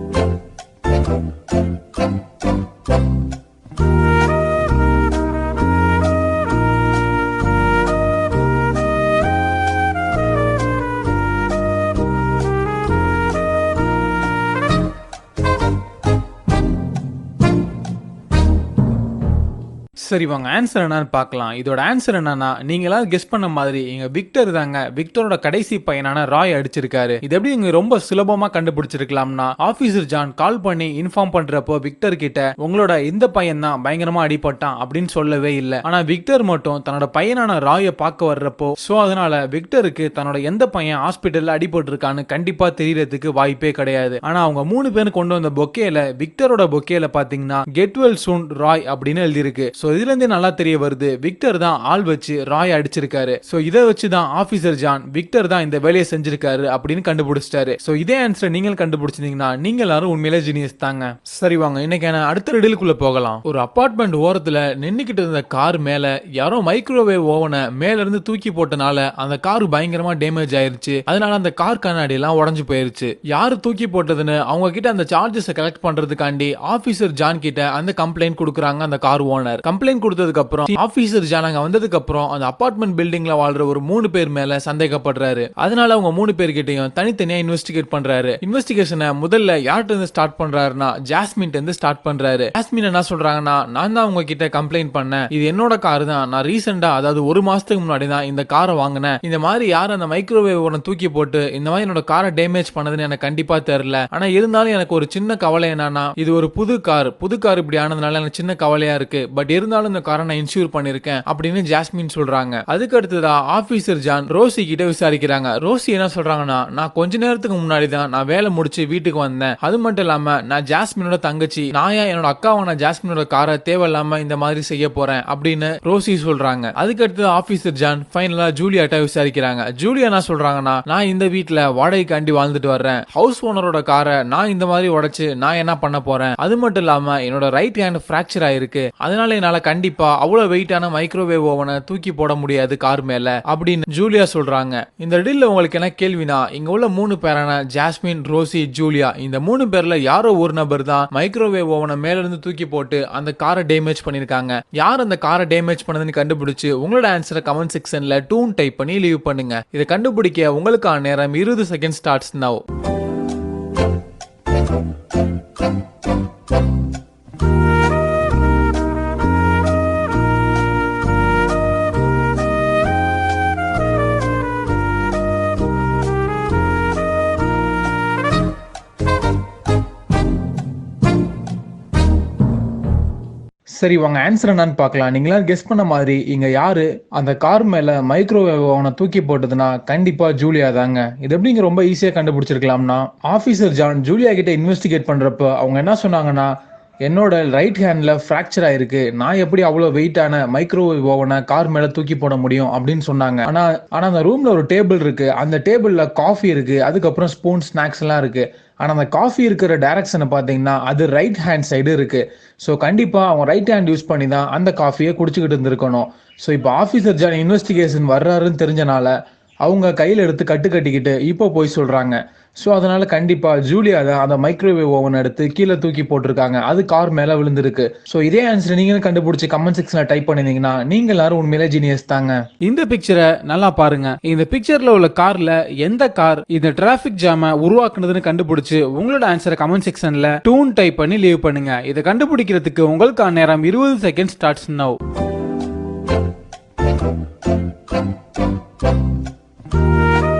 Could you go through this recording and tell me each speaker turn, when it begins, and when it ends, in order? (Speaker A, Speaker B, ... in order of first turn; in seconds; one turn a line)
Speaker A: 20.0-162.6
Speaker A: 183.7-245.0